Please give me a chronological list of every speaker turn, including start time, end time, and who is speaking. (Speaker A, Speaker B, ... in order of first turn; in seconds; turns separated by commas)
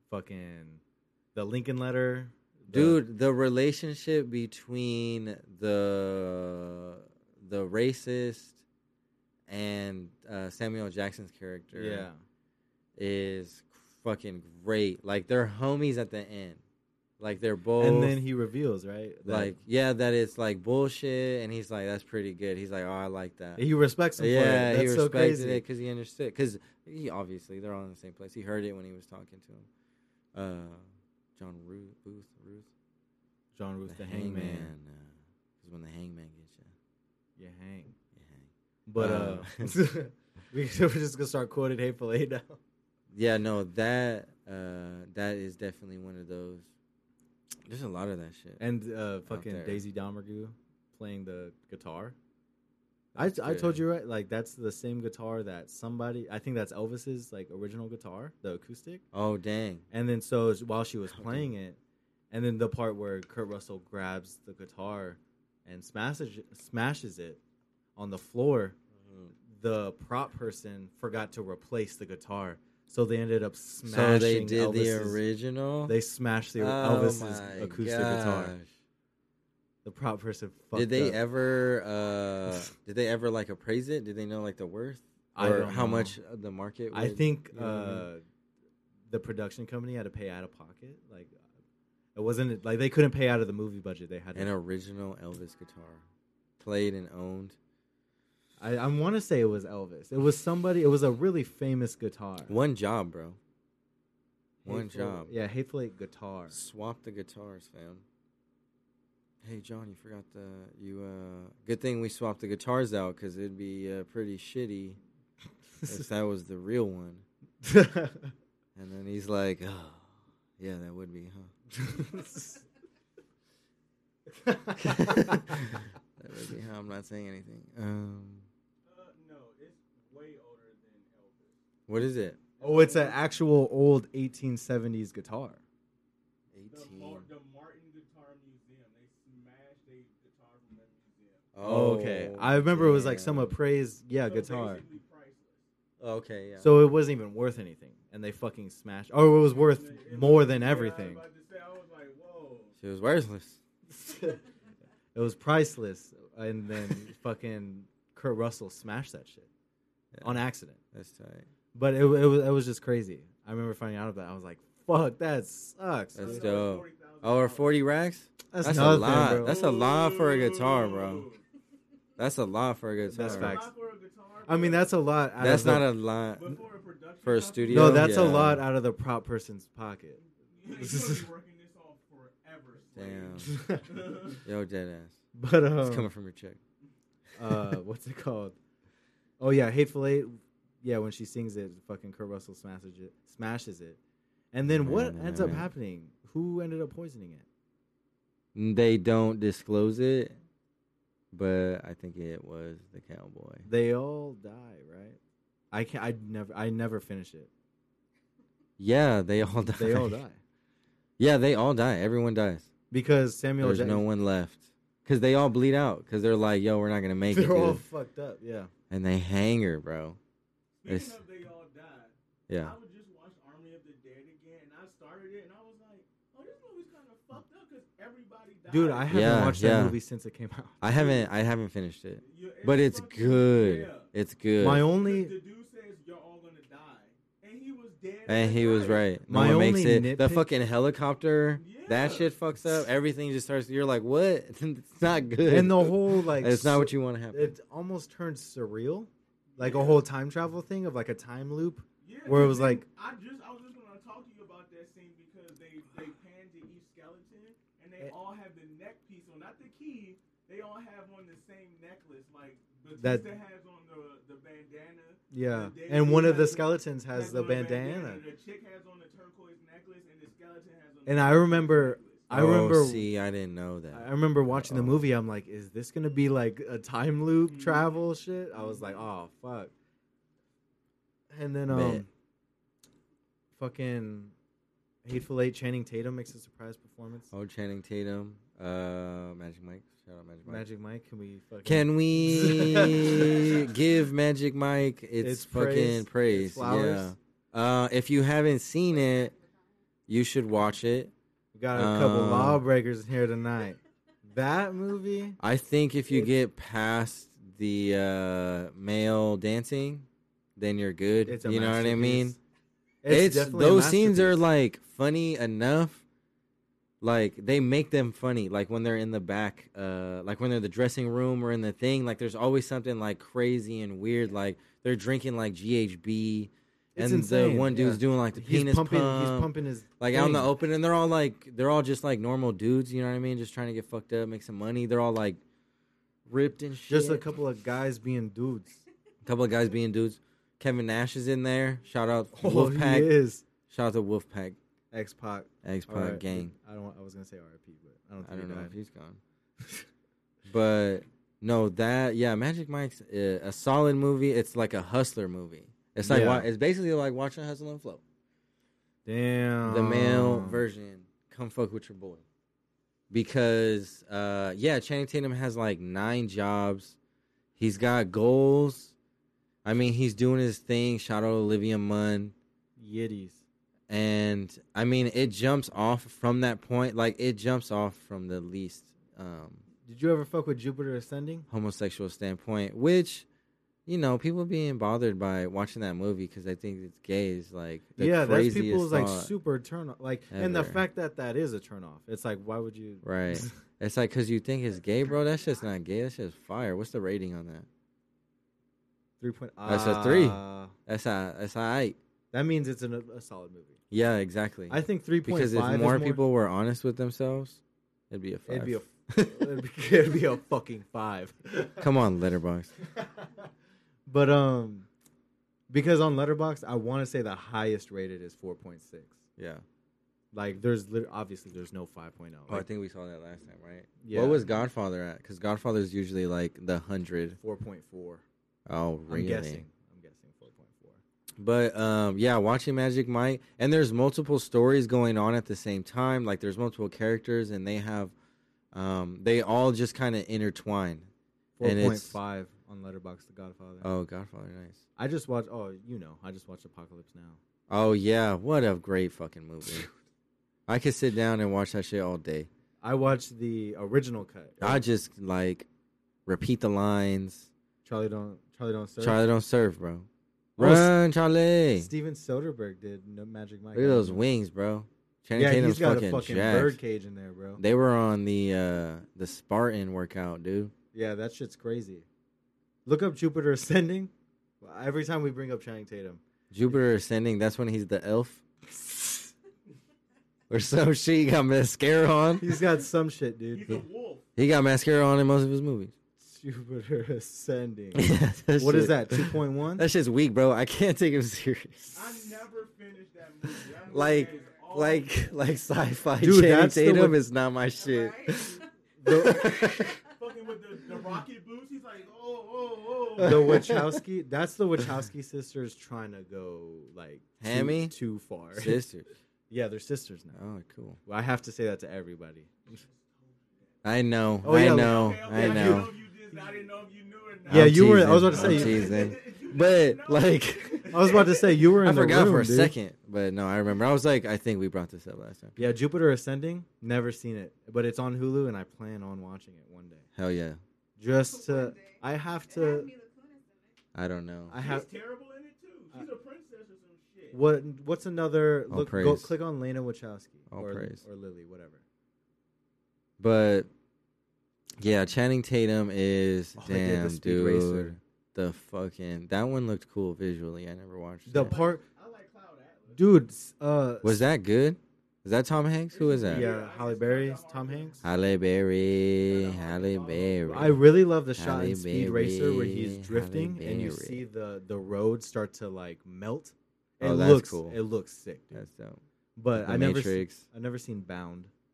Speaker A: 0.1-0.8, Speaker A: 1.4-3.0, Speaker B: 2.7-8.6, Speaker B: 9.5-12.1, Speaker A: 11.7-12.2, Speaker B: 13.0-16.6, Speaker B: 17.2-18.2, Speaker A: 17.8-19.6, Speaker B: 19.3-23.6, Speaker A: 23.6-25.6, Speaker B: 24.2-29.7, Speaker B: 30.3-32.7, Speaker A: 33.5-34.7, Speaker B: 33.9-36.7, Speaker A: 37.4-38.0, Speaker B: 38.1-39.8, Speaker A: 38.9-42.6, Speaker B: 43.1-46.7, Speaker B: 47.7-48.6, Speaker A: 48.6-52.1, Speaker B: 49.3-49.8, Speaker B: 53.1-53.8, Speaker A: 53.2-59.0, Speaker B: 59.1-59.9, Speaker A: 59.9-61.8, Speaker B: 61.1-61.5, Speaker A: 62.3-67.4, Speaker A: 68.0-68.8, Speaker B: 69.0-69.3, Speaker A: 69.5-75.2, Speaker B: 73.8-76.0, Speaker A: 75.9-78.5, Speaker B: 76.6-78.7, Speaker A: 79.8-81.2, Speaker B: 80.7-88.1, Speaker A: 85.3-86.2, Speaker A: 86.9-88.2, Speaker A: 89.1-91.4, Speaker A: 92.2-94.5, Speaker B: 94.3-96.0, Speaker B: 96.6-97.6, Speaker A: 98.6-102.5, Speaker B: 102.5-103.4, Speaker B: 104.6-105.3, Speaker A: 104.7-106.6, Speaker B: 106.5-108.0, Speaker B: 109.4-115.0, Speaker B: 115.8-117.2, Speaker A: 117.6-118.3, Speaker B: 118.8-121.5, Speaker A: 121.8-122.6, Speaker A: 124.3-125.8, Speaker B: 124.8-128.5, Speaker C: 128.9-131.6, Speaker B: 131.9-132.4, Speaker C: 132.6-133.2, Speaker A: 132.6-135.6, Speaker B: 136.5-137.3, Speaker C: 136.7-141.5, Speaker B: 141.5-143.5, Speaker A: 141.6-144.9, Speaker C: 144.2-145.7, Speaker B: 146.0-146.7, Speaker A: 146.6-151.2, Speaker C: 149.6-152.7, Speaker B: 152.8-153.6, Speaker A: 153.9-154.4, Speaker A: 155.1-159.5, Speaker B: 160.1-160.4, Speaker A: 160.2-160.8, Speaker B: 160.9-161.5, Speaker A: 161.7-166.5, Speaker B: 166.2-171.3, Speaker C: 166.2-167.8, Speaker A: 168.5-169.6, Speaker C: 169.2-171.4, Speaker B: 172.2-173.6, Speaker A: 173.1-173.7, Speaker C: 173.2-175.0, Speaker A: 174.5-175.9, Speaker B: 175.4-176.6, Speaker C: 176.3-178.2, Speaker B: 177.2-178.7, Speaker A: 177.7-181.3, Speaker C: 180.4-184.4, Speaker B: 183.0-183.6, Speaker A: 183.4-184.0, Speaker B: 184.4-185.2, Speaker A: 185.3-186.1, Speaker B: 185.8-186.6, Speaker A: 187.4-188.6, Speaker A: 189.4-194.0, Speaker A: 194.5-197.4, Speaker B: 194.7-195.7, Speaker B: 198.6-200.4, Speaker B: 201.3-203.7, Speaker A: 203.7-205.2, Speaker A: 205.7-207.5, Speaker B: 208.8-210.2, Speaker A: 209.7-210.4, Speaker B: 211.2-212.7, Speaker A: 212.9-214.1, Speaker B: 213.6-217.8, Speaker A: 217.3-218.7, Speaker B: 218.9-220.2, Speaker C: 220.8-229.3, Speaker B: 220.9-221.2, Speaker B: 222.5-222.8, Speaker A: 228.7-230.9, Speaker B: 229.1-230.0, Speaker B: 230.8-234.9, Speaker C: 230.9-231.3, Speaker C: 232.2-234.1, Speaker A: 234.6-235.3, Speaker C: 234.7-239.1, Speaker B: 238.3-247.5, Speaker A: 239.3-240.5, Speaker C: 241.6-242.3, Speaker A: 245.5-252.8, Speaker C: 249.6-250.0, Speaker C: 252.0-272.3, Speaker A: 263.0-263.3, Speaker A: 265.3-268.2, Speaker A: 271.1-273.1, Speaker B: 272.3-275.0, Speaker A: 273.9-279.7, Speaker C: 277.4-277.9, Speaker C: 278.6-279.0, Speaker A: 281.3-282.1, Speaker B: 281.7-282.1, Speaker A: 283.6-284.3, Speaker A: 285.1-287.3, Speaker B: 287.3-290.6, Speaker A: 290.5-293.7, Speaker B: 291.6-299.3, Speaker A: 295.2-297.1, Speaker D: 298.9-299.7, Speaker B: 300.1-301.1, Speaker A: 301.5-305.4, Speaker B: 301.7-302.6, Speaker B: 305.4-310.1, Speaker B: 310.6-312.4, Speaker A: 311.3-312.4, Speaker A: 313.0-314.4, Speaker B: 313.1-316.0, Speaker B: 317.0-335.4, Speaker A: 326.9-330.5, Speaker B: 336.3-337.2, Speaker A: 336.9-338.8, Speaker B: 339.2-343.1, Speaker A: 342.3-343.4, Speaker B: 343.7-344.6, Speaker A: 344.9-348.7, Speaker B: 345.6-346.5, Speaker B: 348.2-349.2, Speaker A: 349.6-349.9, Speaker B: 350.5-358.0, Speaker A: 356.0-356.5, Speaker A: 359.1-360.6, Speaker B: 359.7-362.2, Speaker B: 363.1-367.0, Speaker B: 367.6-368.9, Speaker B: 369.6-372.4, Speaker A: 372.8-373.4, Speaker B: 373.9-379.6, Speaker A: 379.9-381.5, Speaker B: 381.5-383.3, Speaker B: 383.9-389.3, Speaker A: 388.0-393.6, Speaker B: 390.3-390.8, Speaker B: 393.0-397.7, Speaker A: 399.2-400.8, Speaker B: 399.6-402.0, Speaker A: 402.3-403.8, Speaker B: 403.9-409.5, Speaker A: 404.7-406.2, Speaker A: 408.5-411.9, Speaker B: 411.8-412.7, Speaker A: 412.8-413.5, Speaker A: 414.1-414.9, Speaker A: 415.7-419.2, Speaker B: 419.4-419.6, Speaker A: 420.3-422.7, Speaker B: 422.5-427.4, Speaker A: 424.0-424.5, Speaker A: 427.4-428.2, Speaker B: 428.7-429.6, Speaker A: 429.1-431.0, Speaker B: 431.4-438.1, Speaker B: 438.7-441.1, Speaker A: 441.6-443.9, Speaker B: 441.6-442.2, Speaker B: 443.8-444.8, Speaker A: 445.0-447.4, Speaker B: 447.7-449.9, Speaker B: 450.7-452.5, Speaker A: 452.8-454.8, Speaker B: 454.6-455.7, Speaker B: 456.3-457.5, Speaker A: 457.9-459.2, Speaker B: 459.0-460.1, Speaker A: 460.6-461.0, Speaker B: 460.6-461.9, Speaker A: 461.8-464.2, Speaker B: 463.8-466.8, Speaker A: 465.4-467.6, Speaker B: 467.6-470.7, Speaker A: 470.9-472.1, Speaker A: 472.9-476.2, Speaker B: 476.5-478.4, Speaker A: 478.8-479.1, Speaker B: 480.5-482.6, Speaker A: 482.4-483.8, Speaker C: 483.5-484.2, Speaker B: 484.4-485.9, Speaker A: 486.2-489.9, Speaker B: 487.9-492.3, Speaker C: 491.9-495.3, Speaker B: 493.9-500.0, Speaker D: 493.9-494.9, Speaker A: 496.2-497.2, Speaker D: 497.8-500.1, Speaker A: 499.0-499.8, Speaker C: 500.0-503.7, Speaker A: 503.2-508.8, Speaker B: 503.2-503.9, Speaker B: 507.4-508.0, Speaker B: 508.5-509.1, Speaker A: 509.5-510.4, Speaker B: 510.3-511.0, Speaker A: 511.1-512.5, Speaker C: 512.7-513.8, Speaker B: 513.8-515.9, Speaker A: 514.4-515.9, Speaker C: 514.5-521.7, Speaker A: 517.5-519.1, Speaker B: 517.5-521.1, Speaker A: 520.9-522.7, Speaker B: 521.8-525.6, Speaker A: 525.6-530.1, Speaker B: 530.1-530.6, Speaker A: 531.0-532.9, Speaker D: 531.2-533.8, Speaker B: 534.0-534.6, Speaker A: 534.5-534.9, Speaker C: 534.5-537.4, Speaker A: 537.3-541.8, Speaker B: 538.7-539.3, Speaker B: 540.5-541.0, Speaker B: 543.2-543.7, Speaker B: 544.8-551.6, Speaker A: 546.6-548.0, Speaker A: 551.3-551.8, Speaker C: 551.4-553.0, Speaker A: 553.0-554.2, Speaker B: 554.0-556.5, Speaker C: 555.9-558.1, Speaker A: 556.2-558.0, Speaker B: 558.0-564.2, Speaker C: 559.2-560.7, Speaker A: 560.5-568.6, Speaker B: 567.0-567.8, Speaker B: 568.5-569.0, Speaker A: 569.4-571.5, Speaker B: 569.5-570.5